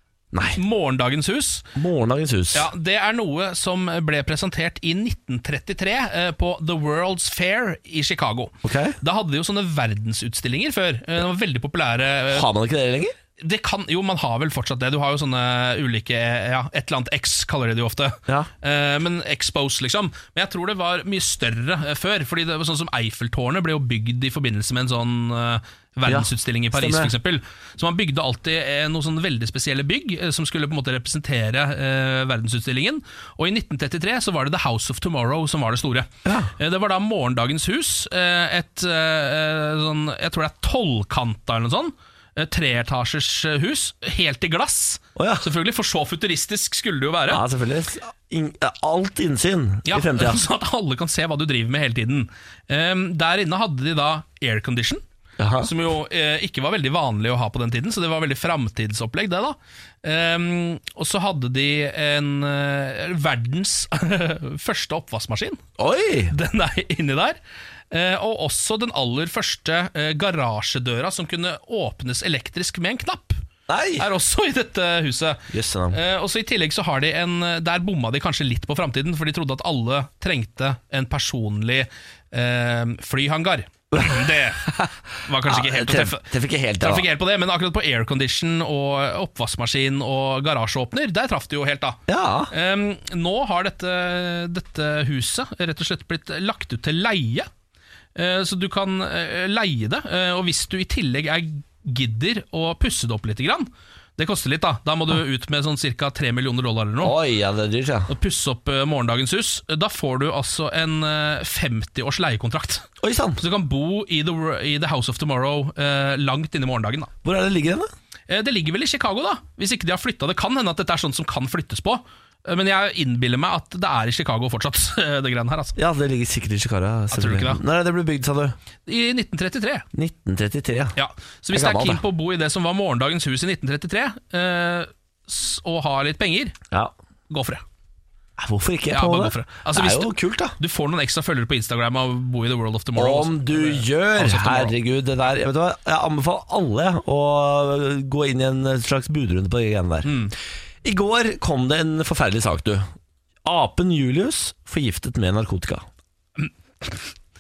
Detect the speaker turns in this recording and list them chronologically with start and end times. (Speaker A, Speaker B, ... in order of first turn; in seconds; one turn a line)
Speaker A: 0.3-0.6
Speaker B: 0.6-1.7
Speaker A: 1.8-2.7
Speaker B: 2.5-12.5
Speaker A: 8.6-9.0
Speaker A: 12.3-13.2
Speaker B: 13.4-47.4
Speaker A: 26.1-27.1
Speaker A: 36.2-36.5
Speaker A: 45.2-45.5
Speaker A: 47.3-50.4
Speaker B: 49.9-55.0
Speaker A: 55.4-55.7
Speaker B: 55.6-65.6
Speaker A: 65.8-66.3
Speaker B: 66.3-67.4
Speaker B: 67.9-73.4
Speaker A: 73.7-74.1
Speaker B: 74.0-84.7
Speaker A: 75.5-76.0
Speaker A: 83.9-84.9
Speaker B: 85.2-86.3
Speaker A: 85.5-87.1
Speaker B: 86.8-92.0
Speaker A: 92.1-92.5
Speaker B: 92.5-97.5
Speaker B: 98.2-107.2
Speaker A: 107.0-108.1
Speaker B: 108.1-112.9
Speaker A: 113.0-113.4
Speaker B: 113.4-117.1
Speaker A: 117.2-117.9
Speaker B: 118.3-125.8
Speaker A: 125.8-128.6
Speaker B: 127.1-127.6
Speaker B: 128.9-129.9
Speaker A: 129.9-130.9
Speaker B: 131.0-136.6
Speaker A: 131.5-132.0
Speaker B: 137.3-137.6
Speaker A: 138.4-140.6
Speaker B: 138.9-144.8
Speaker A: 143.0-150.1
Speaker B: 150.1-150.3
Speaker A: 150.8-152.9
Speaker A: 153.4-155.8
Speaker B: 156.4-157.0